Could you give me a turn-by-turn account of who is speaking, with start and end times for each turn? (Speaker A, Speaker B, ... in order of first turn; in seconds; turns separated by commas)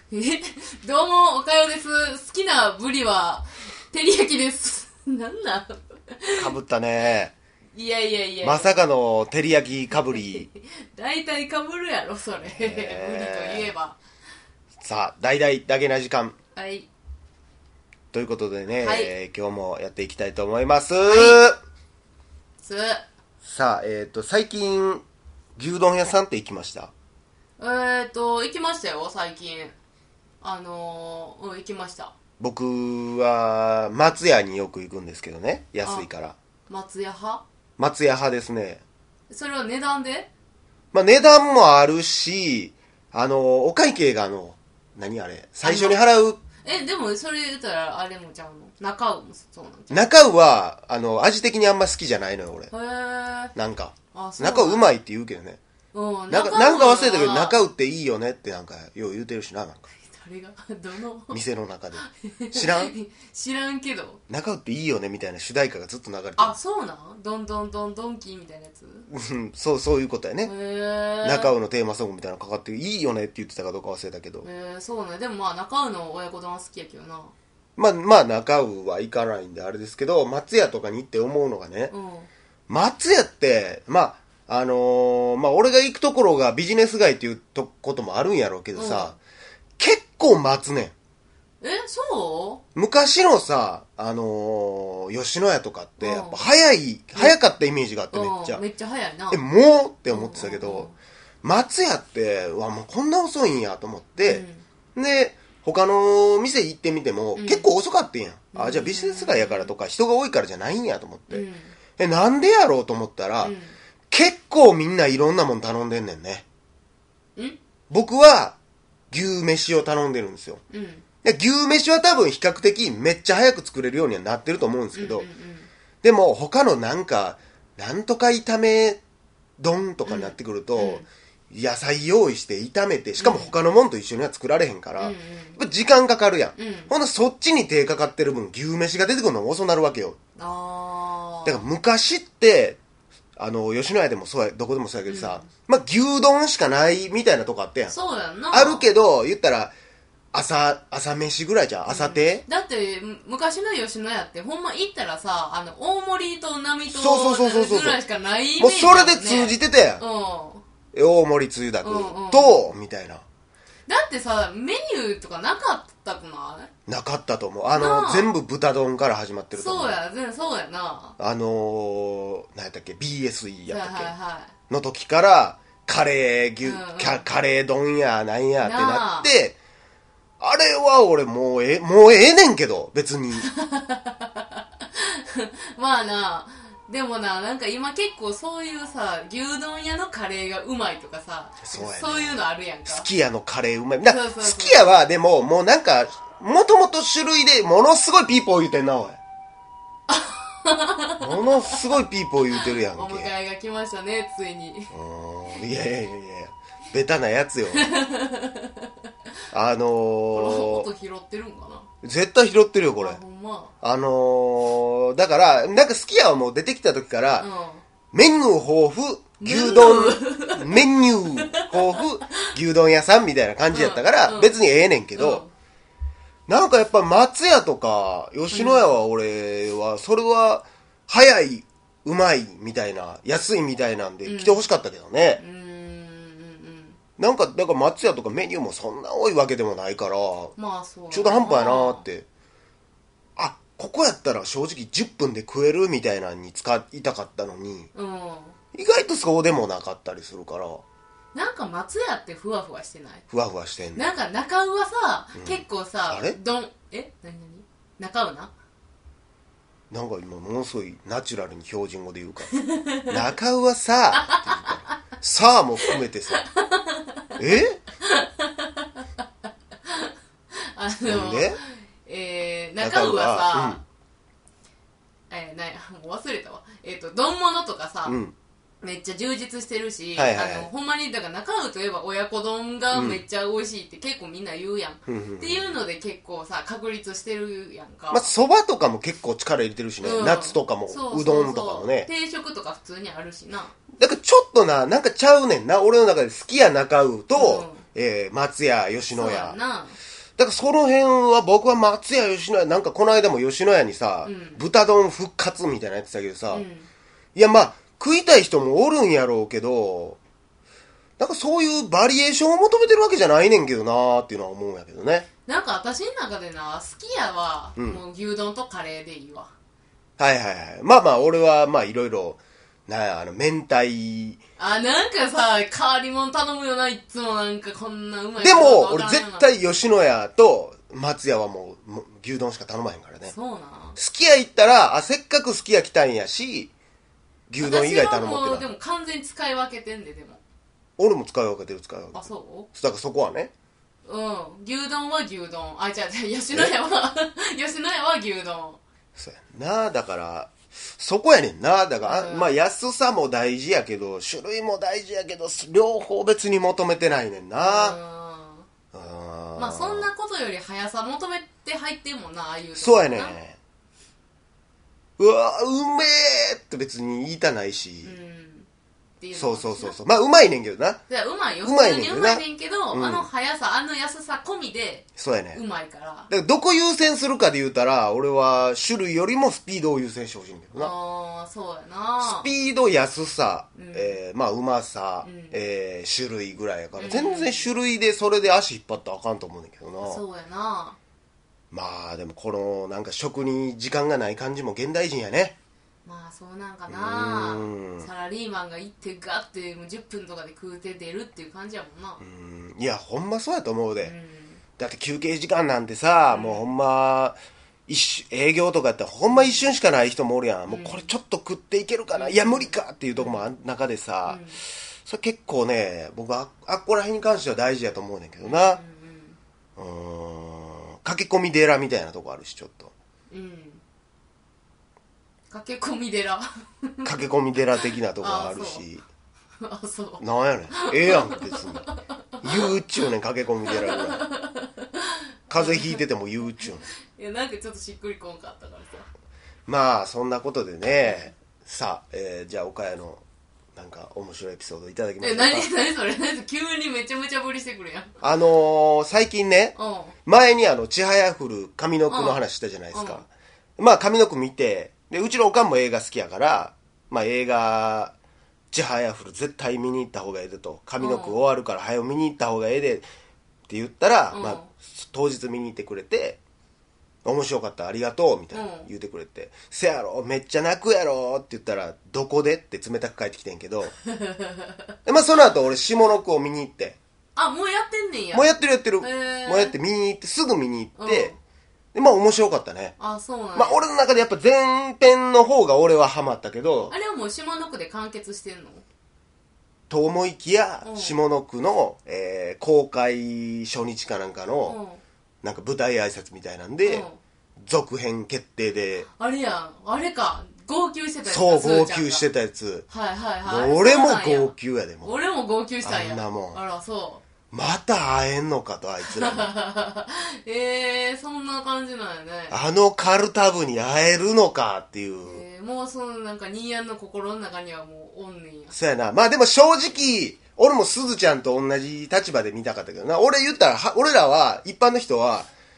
Speaker A: 0.1-6.5, Speaker B: 6.4-7.3, Speaker A: 7.7-8.8, Speaker B: 8.4-10.5, Speaker A: 9.9-14.0, Speaker B: 12.4-13.7, Speaker B: 14.8-16.4, Speaker A: 16.6-16.9, Speaker B: 18.1-21.6, Speaker A: 18.8-19.1, Speaker A: 21.1-21.4, Speaker A: 22.6-23.1, Speaker B: 23.4-25.0, Speaker B: 25.6-26.9, Speaker A: 27.6-29.7, Speaker A: 30.4-32.1, Speaker B: 32.4-36.4, Speaker A: 35.8-36.1, Speaker A: 36.7-37.4, Speaker B: 37.8-38.8, Speaker A: 39.3-40.3, Speaker B: 40.9-46.4, Speaker A: 45.6-46.0, Speaker A: 46.6-50.1, Speaker B: 49.9-52.7, Speaker A: 52.7-53.5, Speaker B: 53.5-55.6, Speaker A: 54.1-54.9, Speaker A: 55.9-57.6, Speaker B: 56.3-59.9, Speaker A: 60.0-61.4, Speaker B: 61.3-62.9, Speaker A: 62.0-64.2, Speaker B: 64.3-66.5, Speaker A: 66.4-69.1, Speaker B: 69.1-70.5, Speaker A: 70.5-71.5, Speaker B: 71.2-74.5, Speaker A: 74.4-77.3, Speaker B: 77.8-81.9, Speaker A: 81.9-82.3, Speaker B: 82.7-89.2, Speaker A: 88.8-89.2, Speaker B: 89.8-90.9, Speaker A: 91.6-92.6, Speaker B: 92.8-98.6, Speaker A: 96.0-96.4, Speaker A: 98.1-99.4, Speaker B: 99.3-100.9, Speaker A: 100.1-101.0, Speaker B: 101.4-111.5, Speaker A: 104.3-104.7, Speaker A: 107.4-107.7, Speaker A: 108.5-109.7, Speaker A: 111.3-111.8, Speaker B: 112.0-113.5, Speaker A: 113.4-113.8, Speaker B: 114.1-116.5, Speaker B: 117.9-118.6, Speaker B: 119.1-120.6, Speaker A: 120.7-121.0, Speaker B: 121.2-125.3, Speaker A: 125.0-125.7, Speaker B: 126.0-129.0, Speaker B: 129.6-140.2, Speaker A: 130.1-131.1, Speaker A: 133.2-133.5, Speaker A: 135.0-135.6, Speaker A: 136.6-136.9, Speaker A: 140.4-141.6, Speaker B: 141.4-142.8, Speaker B: 143.4-147.9, Speaker A: 145.1-145.4, Speaker A: 147.9-148.9, Speaker B: 148.5-149.7, Speaker B: 150.3-152.4, Speaker A: 151.9-160.6, Speaker B: 156.9-158.0, Speaker B: 158.6-160.0, Speaker B: 160.9-163.2, Speaker A: 161.8-162.7, Speaker A: 163.9-166.7, Speaker B: 166.9-170.0, Speaker A: 167.7-168.3, Speaker A: 169.5-171.2, Speaker B: 171.2-174.1, Speaker A: 173.7-174.5, Speaker B: 174.7-179.6, Speaker A: 176.6-177.3, Speaker A: 178.6-179.3, Speaker B: 180.4-183.5, Speaker A: 183.4-193.1, Speaker B: 191.6-199.2, Speaker A: 194.0-195.0, Speaker A: 200.1-201.8, Speaker B: 201.2-203.3, Speaker A: 202.5-204.9, Speaker B: 204.9-207.9, Speaker A: 207.7-208.8, Speaker B: 209.5-210.9, Speaker A: 210.3-211.9, Speaker B: 212.0-213.2, Speaker A: 212.9-213.7, Speaker B: 213.8-217.5, Speaker A: 217.4-217.8, Speaker B: 218.1-225.4, Speaker A: 219.4-220.8, Speaker A: 221.3-221.7, Speaker A: 223.7-224.6, Speaker A: 225.1-225.5, Speaker B: 226.5-235.4, Speaker A: 228.5-228.9, Speaker A: 234.2-234.7, Speaker A: 235.4-237.0, Speaker B: 237.2-240.5, Speaker A: 240.6-242.0, Speaker B: 241.1-242.3, Speaker B: 243.4-247.9, Speaker A: 247.9-248.6, Speaker B: 248.7-250.8, Speaker A: 251.3-253.2, Speaker B: 253.3-254.1, Speaker A: 253.9-258.5, Speaker B: 255.3-256.4, Speaker B: 259.9-266.4, Speaker A: 262.6-263.1, Speaker A: 264.2-264.9, Speaker A: 265.8-267.3, Speaker B: 267.4-267.8, Speaker A: 268.0-269.0, Speaker A: 269.9-273.8, Speaker B: 271.1-271.6, Speaker B: 272.8-273.8, Speaker A: 275.3-278.2, Speaker B: 278.1-278.3, Speaker A: 278.8-288.3, Speaker B: 280.1-280.7, Speaker B: 282.9-283.2, Speaker B: 285.1-285.8, Speaker B: 288.1-292.1, Speaker A: 290.0-293.7, Speaker B: 294.0-299.6, Speaker A: 297.4-297.9, Speaker A: 299.1-300.0, Speaker B: 300.4-306.6, Speaker A: 304.2-304.6, Speaker A: 306.5-306.9, Speaker B: 307.4-310.2, Speaker B: 311.2-315.3, Speaker A: 315.5-319.5, Speaker B: 317.8-318.0, Speaker B: 320.2-324.4, Speaker A: 324.6-329.5, Speaker B: 328.4-333.3, Speaker A: 333.2-334.0, Speaker B: 334.0-336.7, Speaker B: 337.5-338.7, Speaker A: 337.6-340.4, Speaker B: 341.0-343.5, Speaker A: 342.1-342.7, Speaker A: 344.1-348.8, Speaker B: 349.2-358.0, Speaker A: 352.1-352.5, Speaker A: 357.6-358.7, Speaker B: 358.9-360.1, Speaker A: 359.6-363.4, Speaker B: 362.8-363.6, Speaker B: 365.2-368.2, Speaker A: 368.0-368.7, Speaker A: 369.2-370.0, Speaker B: 369.3-371.0, Speaker A: 371.1-376.3, Speaker B: 371.6-373.3, Speaker B: 375.2-375.6, Speaker B: 376.3-380.9, Speaker A: 380.8-382.5, Speaker B: 382.2-390.2, Speaker A: 383.8-384.2, Speaker A: 385.2-385.6, Speaker A: 387.0-387.7, Speaker A: 390.0-391.0, Speaker B: 391.7-395.6, Speaker A: 396.1-402.2, Speaker B: 396.9-398.1, Speaker B: 402.2-404.1, Speaker A: 404.0-404.6, Speaker B: 404.8-407.4, Speaker A: 406.3-406.7, Speaker B: 407.9-414.4, Speaker A: 409.3-409.7, Speaker A: 410.7-411.1, Speaker A: 412.2-413.5, Speaker A: 414.2-414.6, Speaker B: 415.1-418.8, Speaker A: 418.4-419.4, Speaker B: 419.8-422.9, Speaker A: 423.3-423.8, Speaker A: 425.5-427.2, Speaker B: 427.1-429.1, Speaker A: 428.2-428.9, Speaker A: 429.6-432.7, Speaker B: 430.2-431.9, Speaker B: 432.4-434.2, Speaker A: 433.7-436.0, Speaker B: 435.5-436.9, Speaker A: 437.1-439.1, Speaker B: 439.7-443.2, Speaker B: 443.8-445.7, Speaker A: 445.2-448.1, Speaker B: 448.2-458.1, Speaker A: 449.8-450.1, Speaker A: 452.1-453.2, Speaker B: 458.7-463.1, Speaker A: 461.0-461.4, Speaker B: 463.7-466.4, Speaker A: 464.3-464.7, Speaker B: 467.2-473.9, Speaker A: 468.5-468.9, Speaker A: 474.2-474.7, Speaker B: 475.1-477.0, Speaker A: 477.4-479.8, Speaker B: 478.3-481.3, Speaker A: 481.0-481.4, Speaker B: 481.9-483.0, Speaker A: 483.0-483.8, Speaker B: 483.5-486.9, Speaker A: 486.9-488.8, Speaker B: 489.9-494.8, Speaker A: 490.8-491.2, Speaker A: 494.7-495.0, Speaker B: 495.4-497.1, Speaker A: 496.8-497.2, Speaker B: 497.6-499.1, Speaker A: 499.1-502.2, Speaker B: 501.2-502.9, Speaker A: 502.9-507.2, Speaker B: 503.5-505.1, Speaker B: 505.8-506.6, Speaker B: 507.5-509.5, Speaker A: 509.1-512.6, Speaker B: 512.5-515.4, Speaker A: 515.2-518.7, Speaker B: 518.7-525.5